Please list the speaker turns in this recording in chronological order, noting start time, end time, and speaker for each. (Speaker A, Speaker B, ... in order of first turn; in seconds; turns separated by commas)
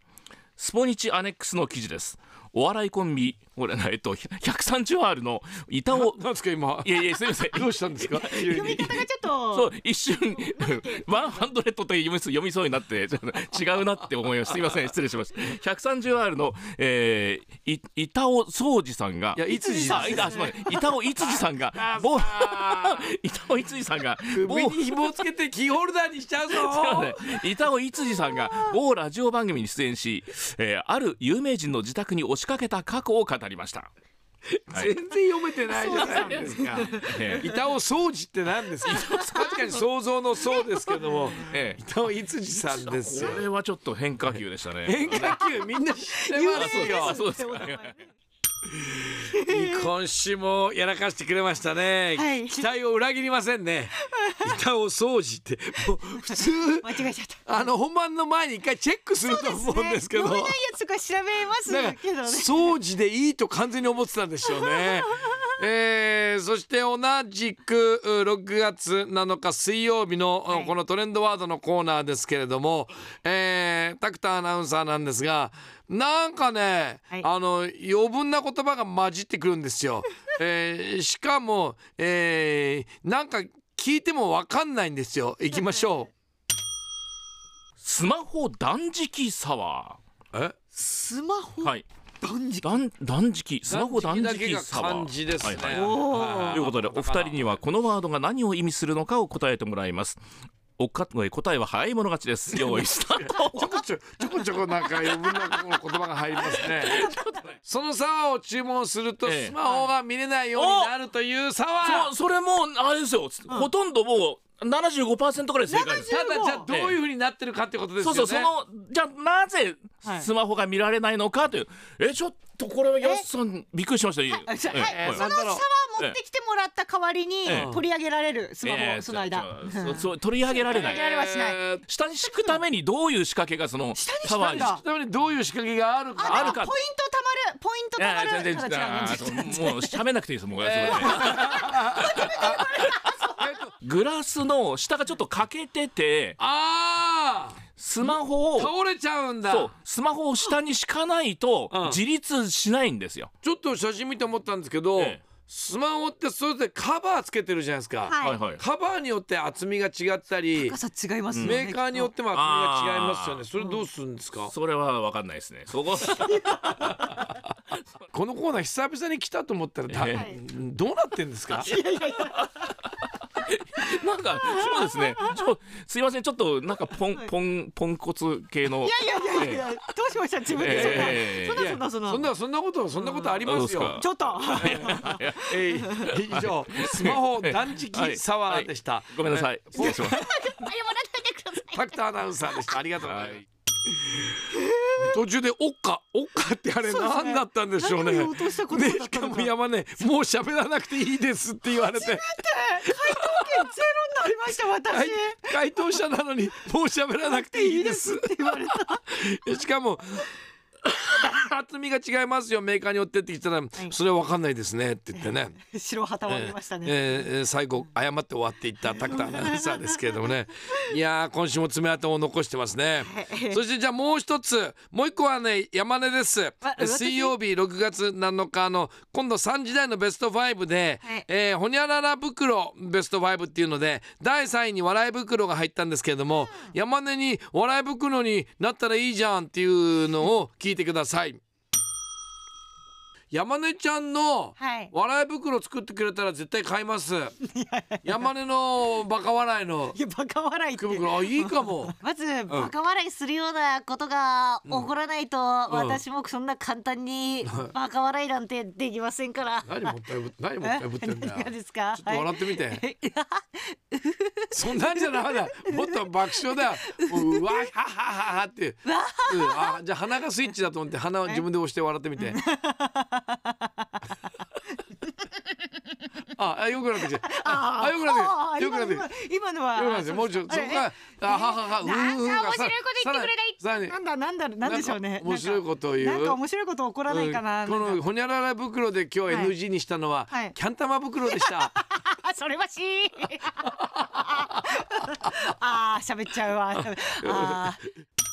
Speaker A: 0.6-6.2, Speaker B: 5.9-8.9, Speaker A: 6.8-8.9, Speaker C: 8.4-9.7, Speaker A: 9.5-25.2, Speaker C: 10.3-11.5, Speaker B: 19.4-20.4, Speaker C: 19.5-20.8, Speaker B: 21.2-23.1, Speaker B: 24.3-27.3, Speaker A: 26.5-33.9, Speaker B: 34.7-43.4, Speaker C: 35.7-37.3, Speaker A: 35.9-37.5, Speaker A: 38.8-39.8, Speaker A: 41.3-41.8, Speaker A: 42.7-45.4, Speaker B: 44.8-47.2, Speaker C: 46.3-48.1, Speaker A: 46.5-47.9, Speaker C: 49.3-49.9, Speaker B: 49.4-56.9, Speaker C: 52.1-52.7, Speaker C: 54.0-54.5, Speaker C: 56.8-57.5, Speaker B: 57.5-60.6, Speaker C: 59.2-62.7, Speaker B: 61.6-86.1, Speaker C: 64.5-64.9, Speaker C: 85.5-86.0, Speaker A: 87.8-90.0, Speaker C: 90.7-92.7, Speaker A: 92.6-100.2, Speaker B: 93.7-97.5, Speaker C: 95.7-96.7, Speaker A: 100.8-103.6, Speaker B: 102.6-107.1, Speaker C: 106.6-107.5, Speaker A: 106.8-107.1, Speaker B: 107.6-112.1, Speaker A: 109.2-109.5, Speaker A: 110.5-110.9, Speaker A: 111.8-116.1, Speaker C: 115.7-116.7, Speaker B: 115.9-118.5, Speaker A: 116.7-116.9, Speaker A: 118.0-125.3, Speaker C: 124.3-131.6, Speaker B: 124.8-125.6, Speaker A: 127.4-127.7, Speaker B: 127.5-127.8, Speaker A: 128.6-131.1, Speaker B: 130.7-131.8, Speaker A: 131.8-134.8, Speaker C: 132.2-132.6, Speaker C: 133.9-134.8, Speaker B: 134.4-136.6, Speaker C: 136.2-140.0, Speaker A: 136.2-136.7, Speaker A: 138.0-141.6, Speaker B: 140.6-142.7, Speaker C: 140.9-143.4, Speaker B: 143.4-143.7, Speaker A: 143.8-146.4, Speaker B: 146.4-149.7, Speaker A: 147.8-148.7, Speaker A: 149.4-153.3, Speaker B: 151.7-152.0, Speaker B: 153.4-160.7, Speaker A: 155.0-155.2, Speaker C: 158.0-158.4, Speaker A: 158.2-158.6, Speaker C: 160.5-162.1, Speaker A: 161.3-161.6, Speaker B: 161.4-164.5, Speaker A: 162.3-163.4, Speaker A: 164.4-166.6, Speaker C: 166.2-167.0, Speaker B: 166.8-167.3, Speaker B: 168.1-171.7, Speaker A: 169.9-170.2, Speaker C: 170.1-170.4, Speaker C: 171.5-172.7, Speaker A: 173.4-179.8, Speaker C: 174.4-175.4, Speaker C: 178.8-182.3, Speaker A: 180.5-181.7, Speaker B: 180.6-184.0, Speaker A: 183.4-190.2, Speaker C: 184.0-186.1, Speaker B: 184.6-190.2, Speaker C: 189.8-192.0, Speaker B: 191.7-193.4, Speaker A: 193.1-193.4, Speaker B: 194.9-202.3, Speaker C: 196.8-199.5, Speaker C: 201.7-205.6, Speaker B: 204.8-210.2, Speaker C: 207.3-209.0, Speaker B: 210.8-215.5, Speaker C: 215.2-217.0, Speaker B: 216.3-241.4, Speaker C: 219.2-219.8, Speaker C: 223.0-223.6, Speaker C: 226.6-227.3, Speaker B: 243.3-247.3, Speaker C: 244.6-244.9, Speaker C: 247.5-248.3, Speaker B: 248.0-250.0, Speaker C: 249.9-260.0, Speaker B: 250.8-251.9, Speaker B: 255.7-256.0, Speaker B: 257.4-257.7, Speaker B: 259.6-262.8, Speaker C: 260.6-266.0, Speaker B: 264.5-272.4, Speaker C: 266.8-267.5, Speaker C: 268.8-269.8, Speaker C: 272.3-273.9, Speaker B: 276.3-279.1, Speaker C: 277.1-288.0, Speaker B: 279.7-283.9, Speaker B: 284.6-286.4, Speaker B: 287.1-291.7, Speaker C: 289.3-289.5, Speaker C: 290.3-290.5, Speaker C: 291.3-297.8, Speaker B: 294.2-294.6, Speaker B: 296.8-297.6